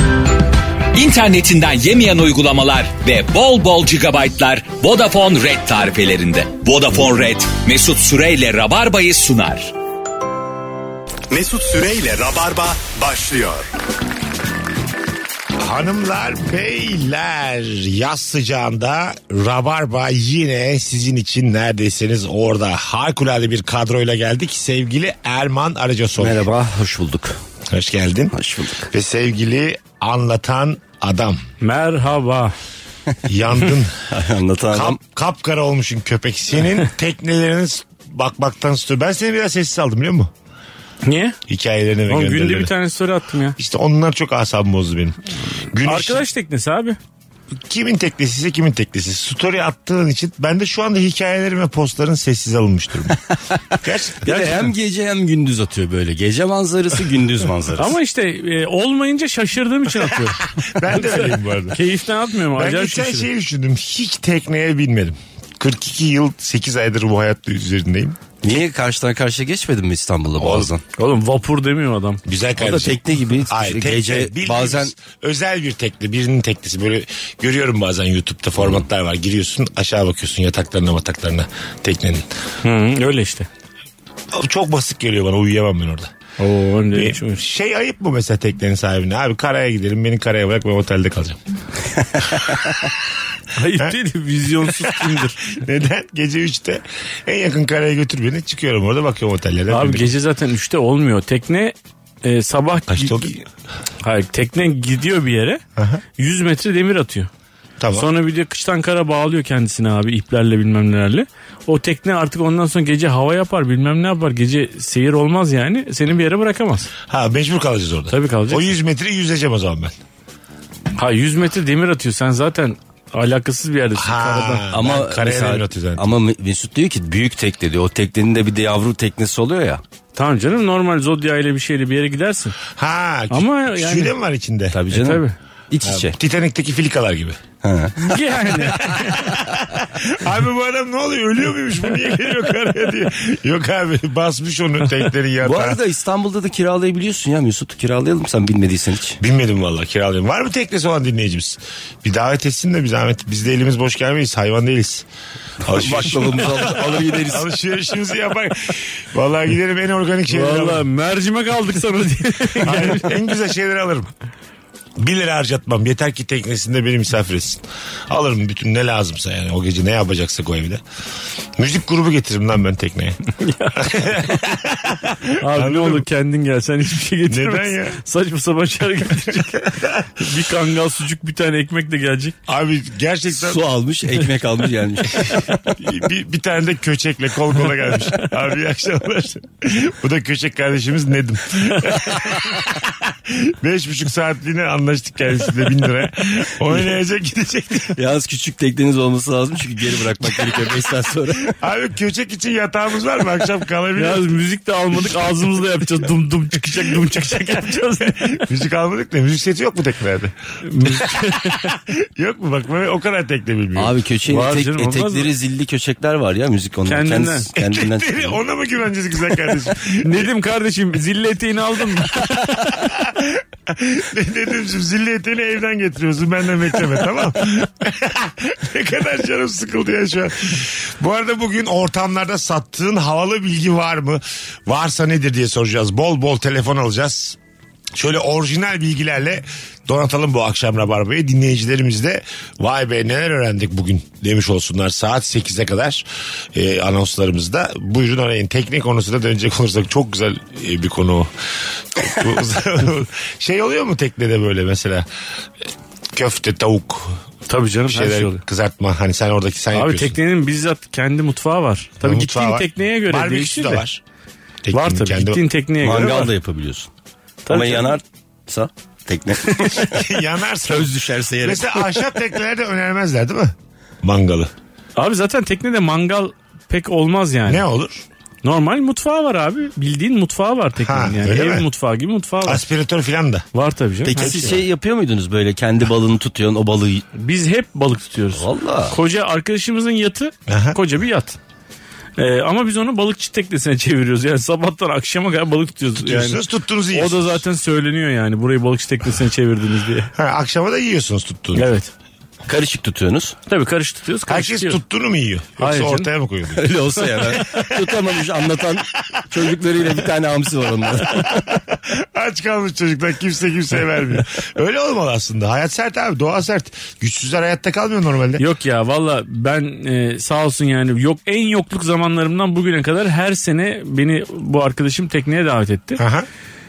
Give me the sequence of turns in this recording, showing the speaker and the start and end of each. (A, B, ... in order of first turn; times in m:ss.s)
0:00.9-0:09.7 A
0:11.3-0:13.7 B
0:15.6-0:26.5 C
0:26.2-0:27.4 D
0:27.7-0:28.4 C
0:28.3-0:28.9 D
0:28.9-0:31.4 C
0:31.6-0:32.5 E
0:33.2-0:34.0 C
0:34.1-0:35.0 D
0:34.7-0:40.3 C
0:41.0-0:41.4 E
0:41.5-0:42.7 C
0:42.1-0:43.6 E
0:43.6-0:45.2 C
0:45.7-0:46.2 C
0:45.8-0:47.0 E
0:47.5-0:53.2 C
0:53.8-0:54.4 C
0:54.2-0:57.9 D
0:57.8-1:03.3 E
1:00.0-1:01.8 C
1:02.5-1:08.2 C
1:08.4-1:10.8 D
1:10.4-1:10.7 C
1:11.0-1:12.2 E
1:12.2-1:22.2 C
1:12.6-1:14.9 D
1:22.6-1:23.5 E
1:24.3-1:26.1 C
1:26.4-1:27.4 E
1:26.9-1:31.4 C
1:33.6-1:35.4 E
1:34.5-1:40.2 C
1:39.7-1:43.4 E
1:42.9-1:43.4 C
1:44.0-1:45.6 E
1:45.8-1:46.0 C
1:46.2-1:47.3 E
1:47.8-1:48.1 C
1:47.9-1:56.9 E
1:57.1-1:59.9 C
1:58.1-1:58.7 E
2:01.0-2:04.7 E
2:04.0-2:06.1 C
2:04.7-2:09.8 D
2:10.1-2:12.6 E
2:12.7-2:14.8 C
2:13.3-2:14.1 E
2:14.7-2:16.2 D
2:14.9-2:15.4 E
2:15.8-2:17.4 C
2:17.6-2:18.0 D
2:18.0-2:19.2 E
2:18.7-2:25.8 C
2:25.4-2:29.2 D
2:29.2-2:35.1 C
2:35.6-2:40.8 C
2:35.7-2:37.5 D
2:40.3-2:43.2 E
2:42.6-2:44.1 C
2:45.0-2:50.8 C
2:51.6-2:53.2 C
2:53.4-2:53.8 E
2:53.8-2:56.0 C
2:55.4-3:02.4 E
2:57.3-2:58.0 C
2:59.2-3:00.1 C
3:02.5-3:03.6 C
3:03.3-3:05.5 D
3:05.2-3:18.0 C
3:18.0-3:21.5 D
3:20.4-3:20.7 C
3:21.3-3:24.3 C
3:24.0-3:28.4 E
3:26.7-3:33.9 C
3:30.6-3:31.7 E
3:33.7-3:38.4 D
3:34.3-3:35.3 E
3:36.8-3:37.5 E
3:37.6-3:40.3 C
3:40.0-3:42.5 E
3:42.5-3:57.4 C
3:57.9-4:15.1 C
4:15.6-4:17.2 C
4:17.5-4:18.4 E
4:17.9-4:20.2 C
4:19.7-4:23.8 E
4:22.0-4:24.0 C
4:24.6-4:25.5 C
4:24.7-4:26.3 E
4:25.8-4:26.9 D
4:27.4-4:28.0 E
4:27.5-4:30.1 D
4:29.9-4:34.5 C
4:30.6-4:32.1 D
4:35.0-4:37.6 E
4:37.5-4:38.0 C
4:38.4-4:42.6 E
4:40.8-4:41.7 C
4:42.4-4:43.4 C
4:43.5-4:44.6 E
4:44.1-4:47.0 D
4:44.2-4:44.6 C
4:47.1-4:51.4 E
4:48.3-4:49.0 D
4:50.5-4:50.8 C
4:52.2-5:00.1 E
4:56.0-4:57.4 C
5:00.2-5:01.7 C
5:01.5-5:01.9 E
5:02.4-5:03.4 D
5:03.5-5:04.8 E
5:04.3-5:08.0 C
5:05.6-5:06.1 E
5:06.6-5:11.5 D
5:11.1-5:18.4 C
5:18.4-5:26.0 E
5:26.0-5:26.3 C